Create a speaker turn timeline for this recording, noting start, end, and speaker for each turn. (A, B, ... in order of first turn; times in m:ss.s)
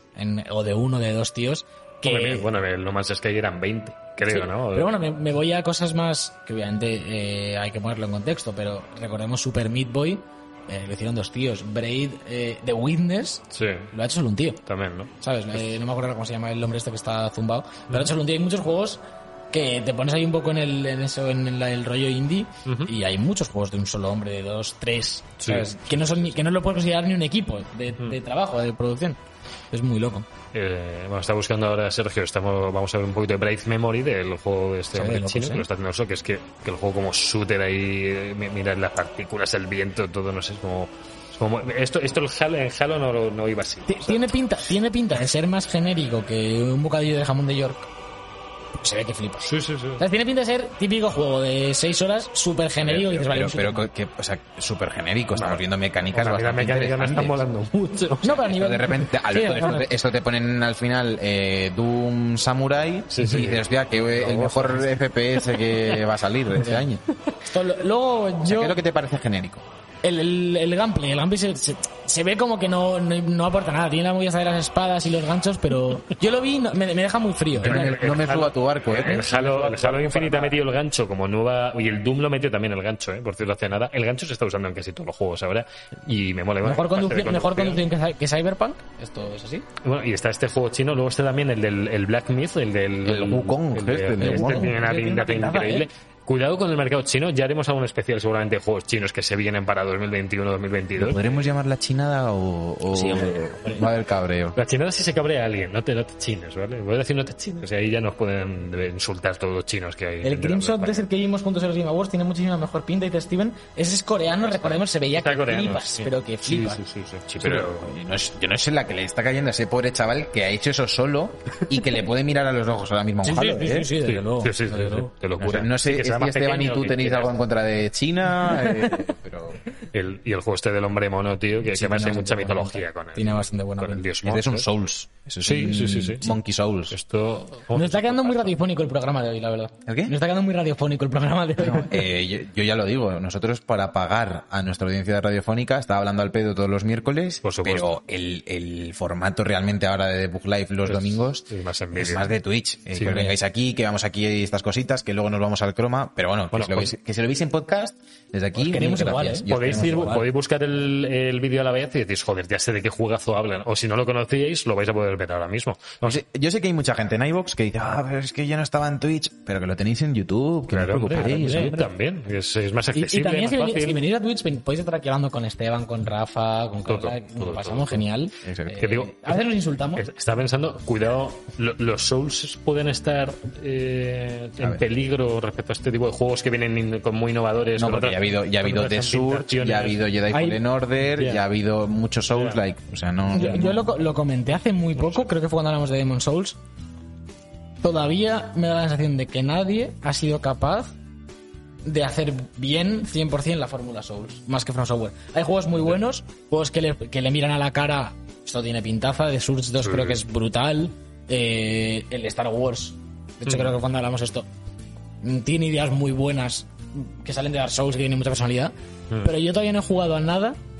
0:00.2-0:02.5 A
0:02.0-0:05.0 B
0:04.2-0:14.6 A
0:13.5-0:13.9 B
0:14.6-0:15.6 B
0:15.2-0:29.2 A
0:22.6-0:22.9 B
0:25.4-0:26.2 B
0:29.7-0:30.2 A
0:30.5-0:44.3 B
0:34.9-0:35.6 A
0:43.9-0:47.9 A
0:48.8-0:53.8 A
0:49.4-0:50.0 B
0:52.9-0:57.4 C
0:55.4-0:55.6 B
0:56.1-0:58.5 B
0:58.2-0:59.9 A
0:58.5-1:07.0 C
1:03.1-1:04.9 B
1:05.5-1:06.0 B
1:07.4-1:08.8 A
1:08.4-1:09.6 C
1:10.0-1:18.1 A
1:17.6-1:19.3 C
1:17.6-1:27.8 B
1:18.9-1:20.5 A
1:26.6-1:29.7 A
1:29.8-1:41.5 B
1:33.0-1:34.8 C
1:34.2-1:35.9 A
1:41.0-1:44.6 C
1:42.9-1:43.9 A
1:44.5-1:51.1 B
1:50.2-1:56.8 A
1:54.5-1:58.0 B
1:57.4-2:03.9 C
2:03.2-2:05.1 A
2:04.0-2:07.4 B
2:05.4-2:09.6 C
2:08.5-2:09.0 A
2:09.9-2:14.6 B
2:11.7-2:14.0 A
2:14.2-2:17.0 C
2:15.4-2:16.4 B
2:16.9-2:18.6 B
2:17.7-2:22.1 A
2:19.8-2:20.1 C
2:21.6-2:40.2 C
2:27.4-2:27.9 B
2:30.8-2:32.3 B
2:32.9-2:33.3 B
2:36.5-2:36.9 B
2:38.6-2:40.2 A
2:39.5-2:46.2 B
2:46.0-2:51.9 C
2:50.7-2:54.0 B
2:51.2-2:51.8 A
2:52.9-3:00.0 A
2:56.8-2:58.0 B
2:58.4-2:58.8 C
2:58.8-2:59.4 B
3:00.0-3:10.1 B
3:07.8-3:13.8 C
3:10.3-3:10.6 A
3:11.2-3:11.4 B
3:12.3-3:12.6 B
3:13.3-3:16.6 A
3:13.3-3:13.6 B
3:17.8-3:20.9 A
3:21.8-3:34.5 A
3:29.8-3:30.2 B
3:33.5-3:33.7 B
3:35.2-3:40.6 A